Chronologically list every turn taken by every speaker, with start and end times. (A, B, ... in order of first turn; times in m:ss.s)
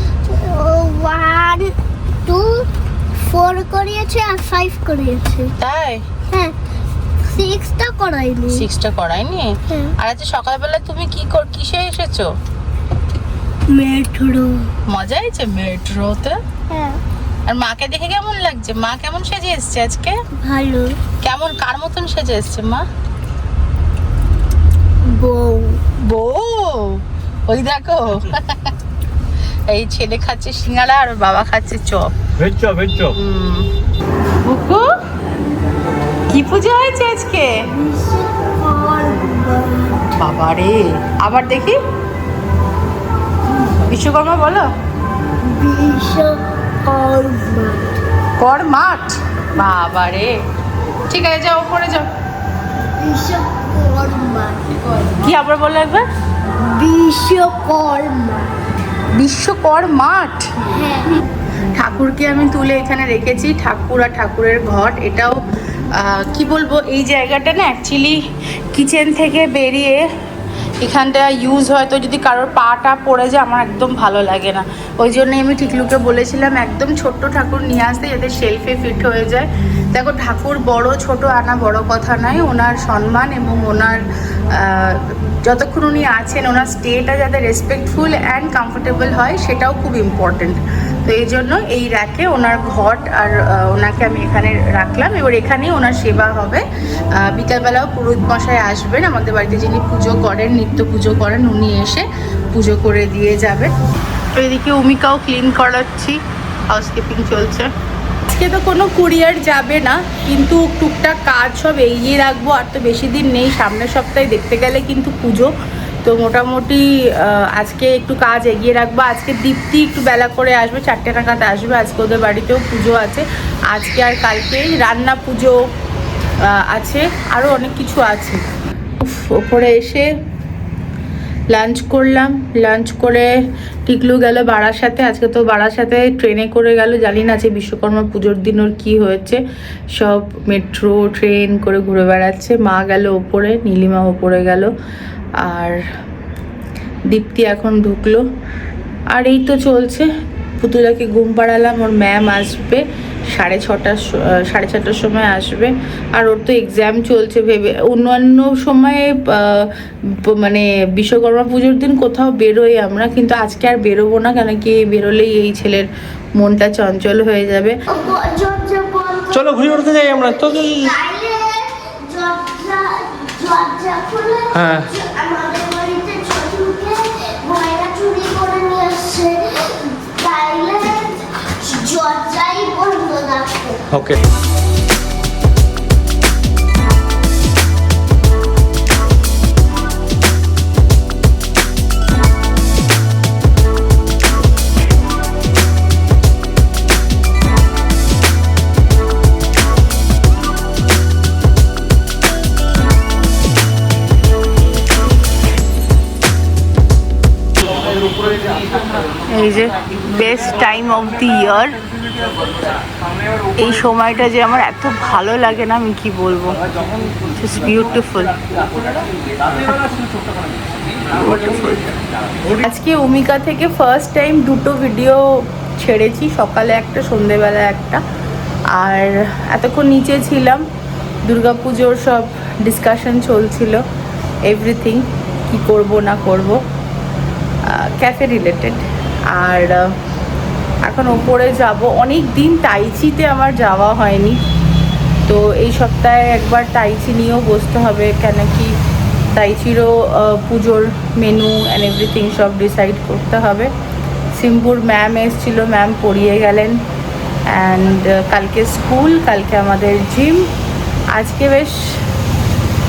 0:00.2-0:02.7 A
0:03.2-0:05.5 A
0:05.6-0:06.0 B
0:07.3-0:08.7 A
0:08.6-0:12.3 B
0:13.7-0:14.7 A
0:14.9-0:16.4 B
0:16.7-0:17.0 A
0:17.5-0:20.2 B
0:20.4-0:21.0 A
0:21.2-0:22.8 B
0:25.1-0:25.8 A
0:26.0-0:28.7 B
0:29.7-0:32.2 B
0:32.4-0:33.2 C
0:33.2-0:33.7 B
0:34.4-0:34.9 B
0:36.3-0:37.6 B
0:37.7-0:40.2 A
0:40.2-0:41.8 B
0:43.9-0:44.7 B
0:45.4-0:48.0 A
0:48.4-0:50.3 B
0:51.1-0:52.1 B
0:53.0-0:54.8 A
0:55.2-0:56.0 B
0:56.6-0:58.5 A
0:59.2-1:01.2 B
1:00.7-1:01.2 A
1:01.7-1:05.4 B
1:06.0-1:08.2 B
1:08.7-1:10.0 B
1:10.8-1:36.6 B
1:37.2-1:43.7 B
1:44.3-1:46.2 B
1:46.7-1:47.7 B
1:48.3-1:55.5 B
1:56.0-2:05.6 B
2:06.4-2:08.4 B
2:09.0-2:10.1 B
2:11.5-2:13.3 B
2:13.9-2:19.4 B
2:20.0-2:24.7 B
2:25.4-2:25.8 B
2:27.1-2:28.2 B
2:29.1-2:30.1 B
2:30.6-2:39.7 B
2:40.3-2:47.8 B
2:47.9-3:03.8 A
2:49.3-2:51.0 C
2:54.5-2:54.9 C
3:03.9-3:04.2 C
3:29.3-3:31.8 B
3:33.6-3:36.6 B
3:37.4-3:38.6 B
3:41.2-3:41.8 C
3:42.6-3:45.2 B
3:45.8-3:48.0 B
3:48.7-3:50.6 B
3:51.3-3:53.8 B
3:54.5-3:56.6 B
3:57.7-3:58.8 B
3:59.4-4:00.0 B
4:00.9-4:04.4 B
4:05.3-4:08.7 B
4:09.3-4:13.7 B
4:14.3-4:16.8 B
4:17.5-4:20.5 B
4:21.1-4:22.0 B